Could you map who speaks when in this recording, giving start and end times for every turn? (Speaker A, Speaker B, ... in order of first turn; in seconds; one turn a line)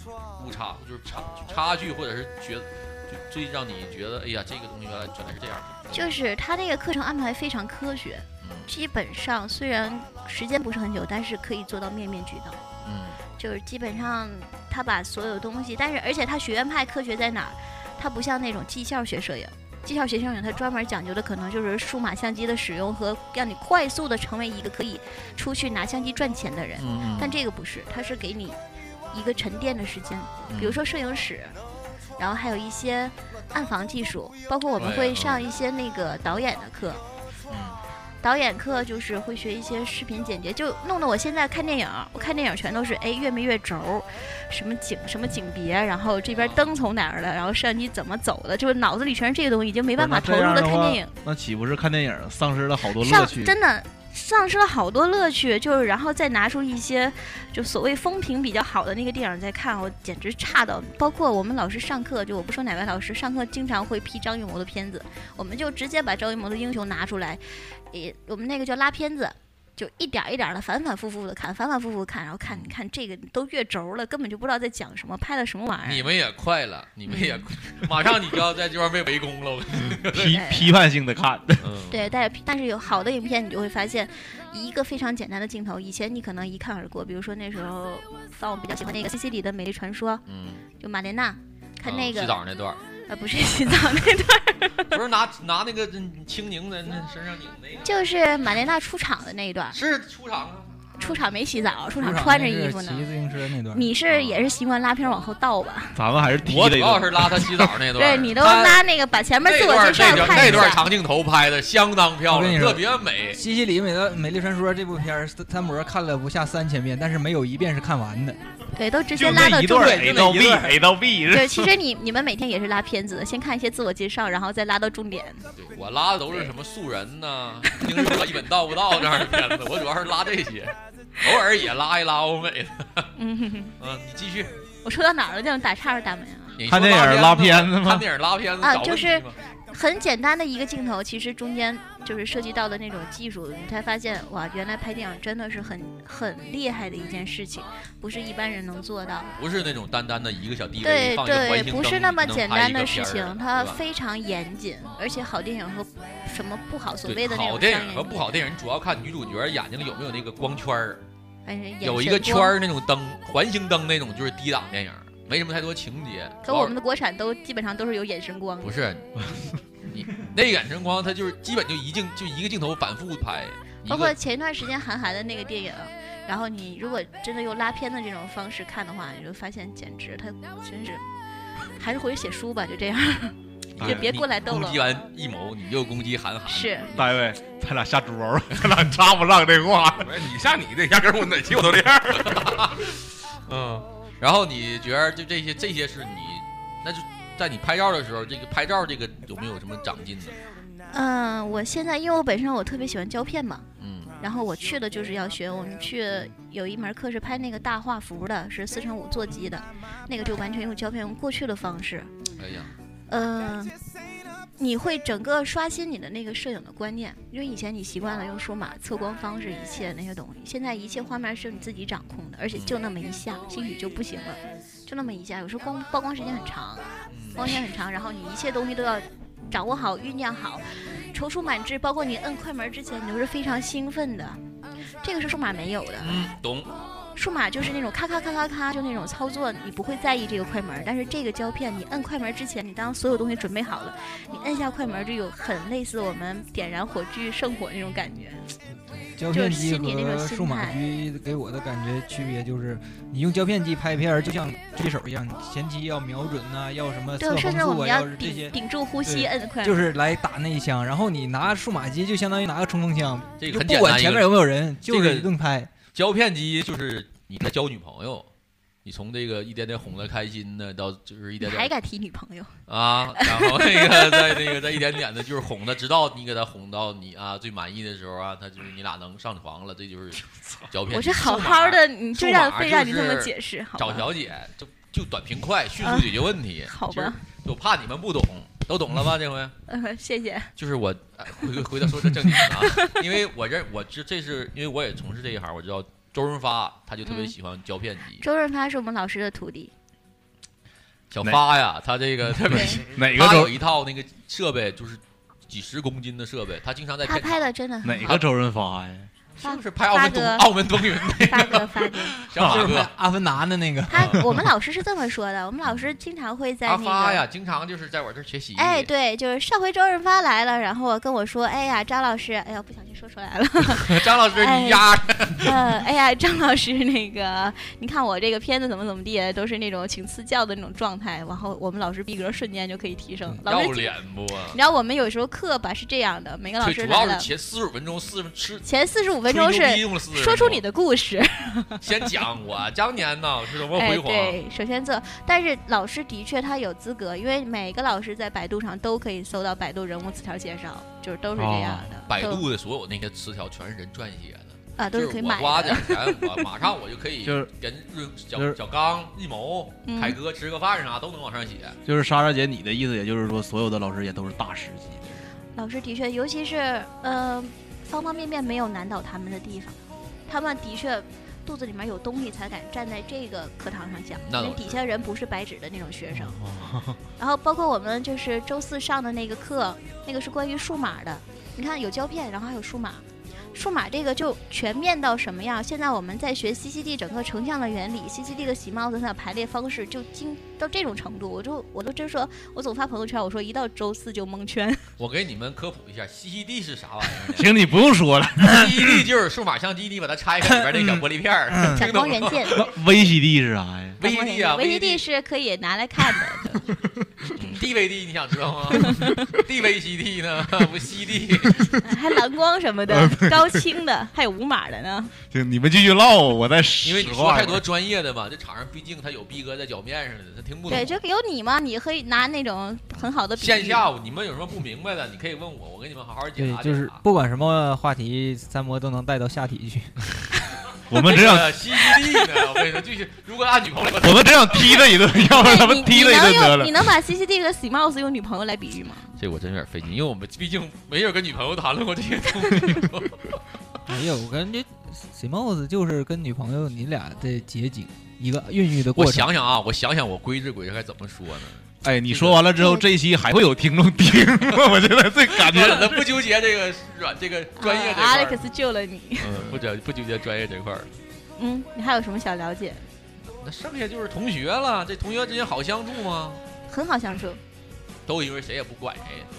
Speaker A: 0.4-6.2
Speaker B: 5.9-12.6
Speaker A: 8.4-8.7
Speaker A: 12.8-13.2
Speaker B: 13.4-28.6
Speaker A: 26.8-27.4
Speaker B: 29.1-31.6
Speaker A: 30.5-30.8
Speaker B: 32.2-37.0
Speaker A: 34.8-35.5
Speaker A: 37.5-37.8
Speaker B: 38.2-51.1
Speaker A: 46.3-46.7
Speaker C: 50.0-53.5
Speaker B: 53.0-76.1
Speaker A: 75.8-80.4
Speaker B: 77.1-77.5
Speaker C: 80.1-81.7
Speaker B: 80.3-80.7
Speaker A: 81.6-82.1
Speaker B: 81.9-90.2
Speaker A: 90.3-90.6
Speaker B: 90.8-92.4
Speaker A: 91.8-92.8
Speaker B: 93.1-94.9
Speaker A: 94.9-98.0
Speaker B: 97.8-99.8
Speaker A: 99.7-101.0
Speaker B: 101.0-103.1
Speaker D: 102.0-103.8
Speaker B: 103.7-106.0
Speaker A: 104.1-104.4
Speaker C: 105.9-107.7
Speaker A: 106.4-108.8
Speaker B: 108.0-110.9
Speaker A: 109.4-113.4
Speaker D: 112.3-118.4
Speaker B: 118.7-120.5
Speaker C: 119.1-121.7
Speaker D: 119.8-120.7
Speaker B: 121.3-125.5
Speaker A: 125.5-133.1
Speaker B: 133.2-133.7
Speaker A: 133.8-134.6
Speaker B: 134.8-136.6
Speaker A: 136.6-139.3
Speaker C: 136.7-138.0
Speaker B: 138.6-149.3
Speaker A: 149.4-153.8
Speaker B: 150.8-158.2
Speaker A: 157.1-161.0
Speaker B: 161.4-162.5
Speaker A: 161.8-166.7
Speaker B: 166.4-168.7
Speaker A: 168.6-169.2
Speaker A: 169.9-174.1
Speaker B: 173.8-181.0
Speaker B: 181.8-184.8
Speaker A: 183.8-187.1
Speaker C: 183.8-184.1
Speaker B: 186.5-186.9
Speaker C: 186.9-190.1
Speaker E: 190.0-192.5
Speaker A: 192.2-200.3
Speaker B: 200.9-203.6
Speaker A: 203.8-204.1
Speaker B: 204.2-212.1
Speaker A: 212.4-212.7
Speaker B: 213.1-213.7
Speaker B: 214.6-234.4
Speaker A: 227.1-227.6
Speaker B: 235.0-236.2
Speaker A: 236.0-236.7
Speaker B: 237.2-248.4
Speaker D: 249.1-265.7
Speaker B: 249.3-250.8
Speaker B: 257.2-259.9
Speaker A: 263.4-265.3
Speaker A: 265.9-268.3
Speaker A: 268.8-271.7
Speaker B: 271.4-272.5
Speaker A: 272.7-289.6
Speaker B: 273.2-274.6
Speaker B: 280.9-284.1
Speaker B: 285.8-286.1
Speaker B: 286.7-287.2
Speaker B: 289.7-290.5
Speaker A: 290.6-298.2
Speaker B: 292.3-293.0
Speaker B: 297.0-297.3
Speaker B: 298.2-299.7
Speaker A: 301.1-307.5
Speaker C: 302.5-303.6
Speaker B: 302.5-302.8
Speaker B: 307.0-308.2
Speaker C: 307.8-309.1
Speaker A: 308.0-308.2
Speaker A: 309.4-312.9
Speaker B: 309.4-310.5
Speaker B: 311.1-312.2
Speaker C: 312.4-312.7
Speaker D: 312.4-314.2
Speaker B: 313.9-317.2
Speaker A: 313.9-314.2
Speaker A: 316.6-318.9
Speaker B: 318.6-333.9
Speaker A: 323.8-325.5
Speaker A: 333.4-334.6
Speaker B: 334.5-337.3
Speaker A: 336.6-338.6
Speaker B: 338.6-341.8
Speaker A: 339.3-340.6
Speaker A: 341.8-344.4
Speaker B: 343.7-352.4
Speaker C: 351.4-352.0
Speaker A: 352.1-361.8
Speaker B: 354.8-356.3
Speaker C: 357.2-357.5
Speaker B: 359.9-360.2
Speaker C: 361.8-365.2
Speaker B: 365.5-369.8
Speaker B: 370.3-376.4
Speaker A: 374.2-374.8
Speaker C: 376.1-377.0
Speaker B: 377.2-394.8
Speaker A: 395.0-397.6
Speaker C: 397.3-399.1
Speaker A: 398.4-402.6
Speaker C: 400.7-401.0
Speaker B: 401.7-402.6
Speaker C: 402.5-404.0
Speaker A: 404.0-405.0
Speaker B: 404.0-406.6
Speaker A: 407.4-411.7
Speaker B: 408.8-409.2
Speaker B: 411.8-415.1
Speaker C: 412.9-413.6
Speaker C: 415.3-417.6
Speaker A: 416.8-421.0
Speaker B: 420.7-423.8
Speaker A: 423.4-427.0
Speaker D: 426.4-429.9
Speaker C: 430.9-431.6
Speaker A: 430.9-434.6
Speaker C: 434.0-436.9
Speaker B: 435.3-439.1
Speaker A: 439.2-443.4
Speaker D: 443.9-449.3
Speaker A: 448.9-452.4
Speaker C: 451.8-456.1
Speaker B: 452.6-452.8
Speaker A: 455.3-458.4
Speaker B: 457.6-459.3
Speaker A: 459.2-460.9
Speaker C: 459.3-459.6
Speaker B: 461.4-462.9
Speaker A: 463.4-466.4
Speaker B: 466.7-467.4
Speaker A: 468.1-469.3